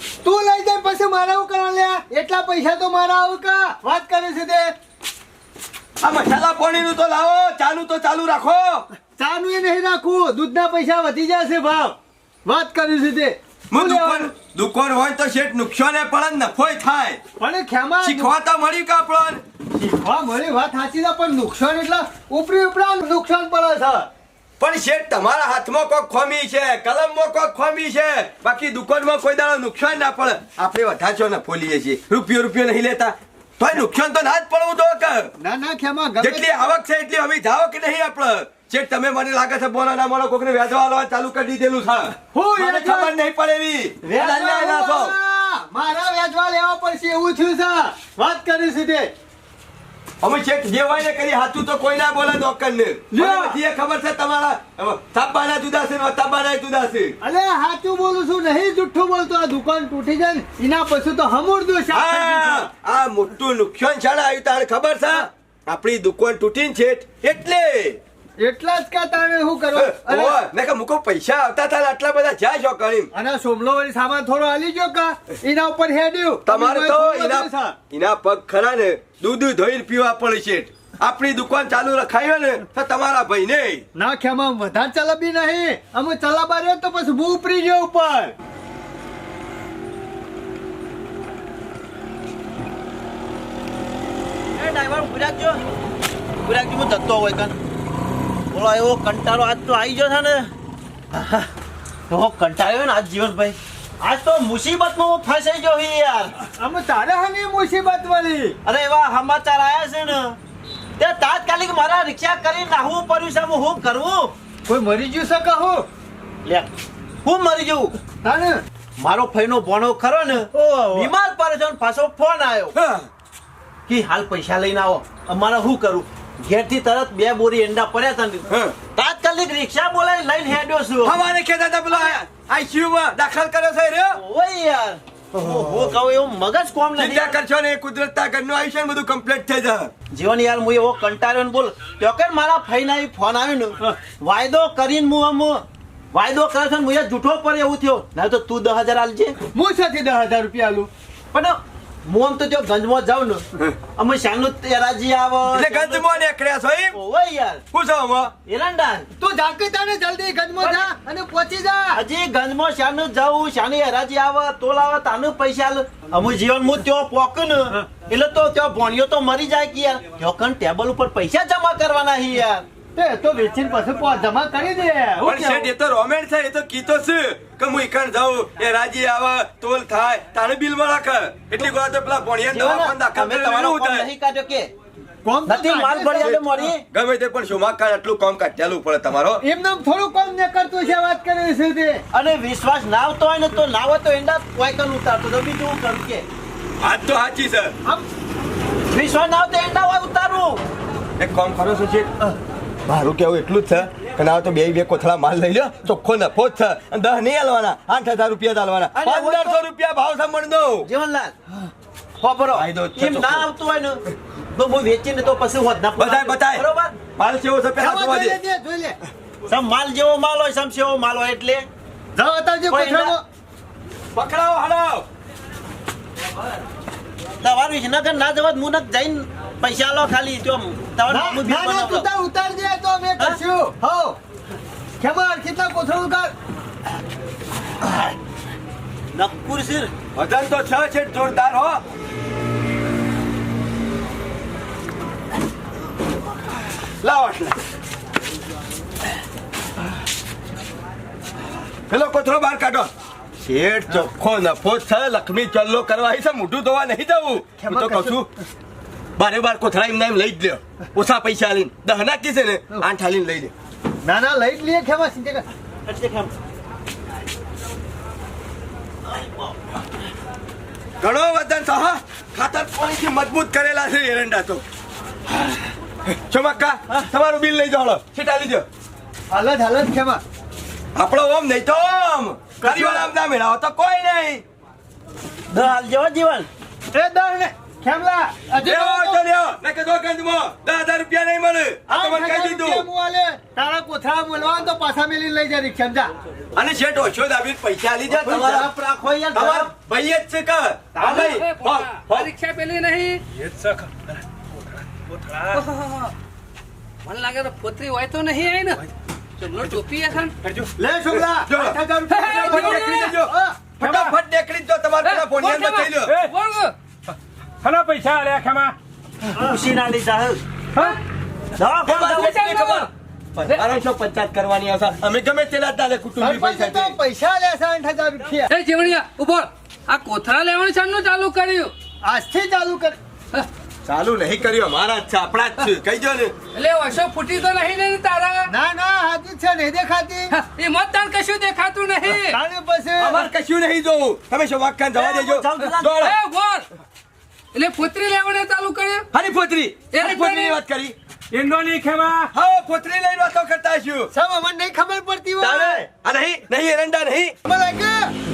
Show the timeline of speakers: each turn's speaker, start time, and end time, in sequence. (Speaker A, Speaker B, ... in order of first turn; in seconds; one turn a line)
Speaker A: 0.2-4.7
Speaker B: 6.0-8.8
Speaker A: 9.1-14.3
Speaker B: 13.7-17.2
Speaker A: 17.4-18.3
Speaker B: 18.0-19.4
Speaker A: 19.7-24.1
Speaker B: 24.6-35.3
Speaker A: 35.4-36.7
Speaker B: 36.2-45.1
Speaker A: 42.3-43.1
Speaker A: 44.0-49.1
Speaker B: 50.2-57.1
Speaker A: 53.1-53.6
Speaker A: 57.2-62.7
Speaker B: 61.9-68.0
Speaker A: 68.4-70.4
Speaker B: 69.7-73.1
Speaker A: 73.1-77.8
Speaker B: 76.5-83.8
Speaker A: 83.9-88.3
Speaker C: 94.5-95.6
Speaker C: 96.4-97.5
Speaker C: 98.5-100.5
Speaker C: 101.1-101.4
Speaker C: 102.1-106.3
Speaker A: 106.6-108.5
Speaker C: 108.6-110.4
Speaker C: 111.0-114.3
Speaker A: 114.7-115.8
Speaker C: 116.4-116.7
Speaker C: 117.2-118.0
Speaker A: 118.2-118.6
Speaker C: 119.0-122.7
Speaker A: 120.5-121.1
Speaker B: 122.7-123.1
Speaker C: 123.9-131.2
Speaker B: 128.5-128.8
Speaker B: 131.0-134.2
Speaker C: 134.1-137.4
Speaker B: 136.9-139.9
Speaker C: 140.1-149.3
Speaker A: 149.5-150.9
Speaker C: 151.3-156.2
Speaker B: 155.5-156.9
Speaker C: 156.9-157.6
Speaker B: 157.7-158.3
Speaker C: 158.4-159.1
Speaker A: 159.2-162.0
Speaker C: 161.9-172.6
Speaker A: 172.9-175.7
Speaker B: 175.2-184.1
Speaker C: 182.5-184.7
Speaker A: 185.2-186.4
Speaker C: 185.4-186.8
Speaker B: 186.2-189.4
Speaker A: 189.4-192.0
Speaker C: 192.1-196.3
Speaker B: 196.8-197.7
Speaker C: 198.9-200.6
Speaker B: 201.2-202.1
Speaker B: 202.8-210.9
Speaker C: 208.9-209.6
Speaker C: 210.8-211.3
Speaker C: 212.2-217.0
Speaker B: 212.5-213.5
Speaker B: 215.9-218.4
Speaker A: 217.8-219.0
Speaker C: 219.5-221.7
Speaker A: 222.2-223.2
Speaker C: 222.7-223.2
Speaker B: 224.1-225.1
Speaker C: 227.4-232.1
Speaker A: 231.1-234.2
Speaker A: 235.0-236.3
Speaker C: 239.1-239.9
Speaker B: 240.1-241.8
Speaker B: 247.0-247.6
Speaker B: 251.9-252.9
Speaker C: 253.5-253.8
Speaker B: 253.8-258.3
Speaker A: 257.6-258.2
Speaker B: 259.2-263.5
Speaker A: 264.0-265.4
Speaker C: 265.9-266.3
Speaker C: 269.1-269.5
Speaker B: 271.0-274.6
Speaker B: 276.1-278.6
Speaker A: 279.3-280.2
Speaker B: 280.9-284.4
Speaker A: 282.6-283.1
Speaker C: 285.5-286.5
Speaker A: 286.9-289.2
Speaker B: 288.6-292.9
Speaker A: 291.9-296.1
Speaker B: 296.5-298.7
Speaker C: 298.1-299.7
Speaker B: 299.3-302.3
Speaker D: 301.0-303.2
Speaker E: 303.3-305.6
Speaker D: 305.5-306.1
Speaker D: 307.0-308.9
Speaker D: 309.4-310.3
Speaker E: 310.4-310.7
Speaker A: 310.8-313.6
Speaker B: 311.3-316.1
Speaker D: 312.1-313.1
Speaker D: 315.0-316.7
Speaker E: 317.6-318.7
Speaker C: 319.4-320.4
Speaker C: 321.6-322.2
Speaker B: 321.8-326.9
Speaker D: 322.0-322.9
Speaker A: 326.2-328.5
Speaker D: 328.5-331.7
Speaker A: 332.0-333.0
Speaker B: 333.9-336.3
Speaker D: 336.5-338.5
Speaker A: 338.5-340.3
Speaker D: 340.3-342.4
Speaker A: 342.2-343.2
Speaker B: 343.0-346.1
Speaker C: 344.9-346.1
Speaker D: 345.9-346.7
Speaker D: 347.5-349.1
Speaker B: 349.1-350.9
Speaker D: 349.9-350.6
Speaker E: 351.3-352.3
Speaker B: 352.3-354.1
Speaker A: 354.1-355.9
Speaker B: 355.4-357.4
Speaker A: 357.4-358.1